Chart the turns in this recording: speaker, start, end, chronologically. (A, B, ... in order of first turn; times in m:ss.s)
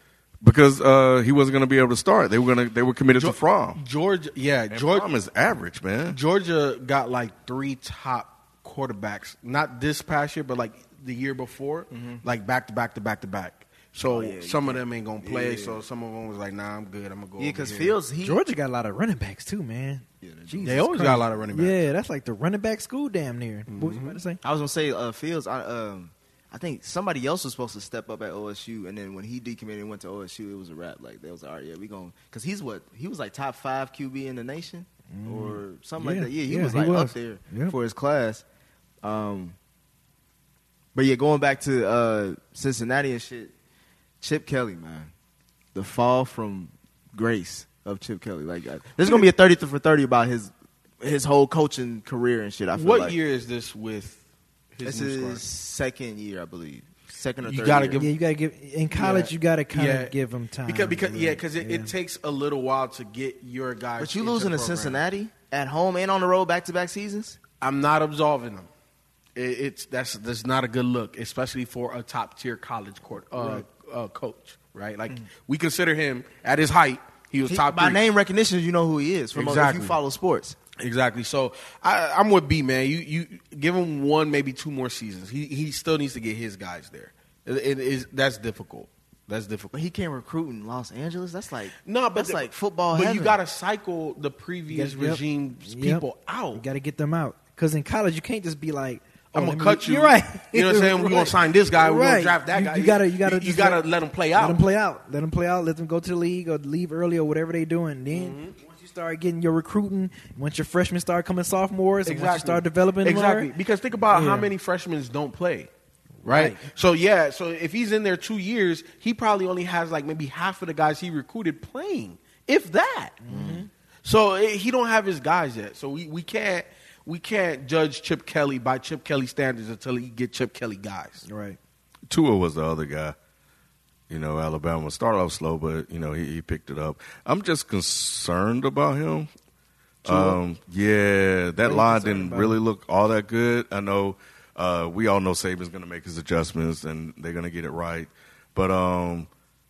0:00.4-0:03.8 A
0:03.2-0:05.1 B
0:04.7-0:06.2 A
0:06.1-0:18.0 B
0:11.9-0:12.2 C
0:14.1-0:15.8 C
0:17.4-0:18.4 C
0:18.2-0:24.4 D
0:20.2-0:20.8 C
0:20.6-0:21.8 B
0:23.7-0:24.2 B
0:24.4-0:38.4 C
0:35.1-0:37.8 D
0:39.0-0:39.6 C
0:41.0-0:43.5 C
0:44.2-0:45.1 C
0:45.8-0:50.5 C
0:51.0-0:53.2 C
0:52.7-0:54.2 B
0:54.7-0:55.4 B
0:54.8-0:58.0 C
0:57.4-0:58.1 B
0:58.0-1:01.9 D
0:58.9-1:00.1 B
1:00.7-1:05.0 B
1:04.0-1:07.4 C
1:07.6-1:08.7 B
1:09.4-1:18.0 B
1:13.4-1:13.6 D
1:17.5-1:20.6 C
1:19.3-1:20.0 B
1:20.8-1:29.7 B
1:29.7-1:33.4 C
1:31.8-1:36.6 B
1:34.7-1:43.8 D
1:39.3-1:44.6 B
1:44.4-1:53.5 D
1:48.1-1:48.6 B
1:52.0-1:55.7 B
1:54.1-1:54.5 D
1:56.2-1:56.6 D
1:56.2-2:03.2 B
2:03.2-2:03.7 D
2:03.3-2:03.6 C
2:04.0-2:11.2 B
2:11.2-2:11.6 D
2:12.1-2:13.2 A
2:14.1-2:19.3 A
2:20.0-2:29.3 A
2:20.1-2:20.4 D
2:21.6-2:22.6 D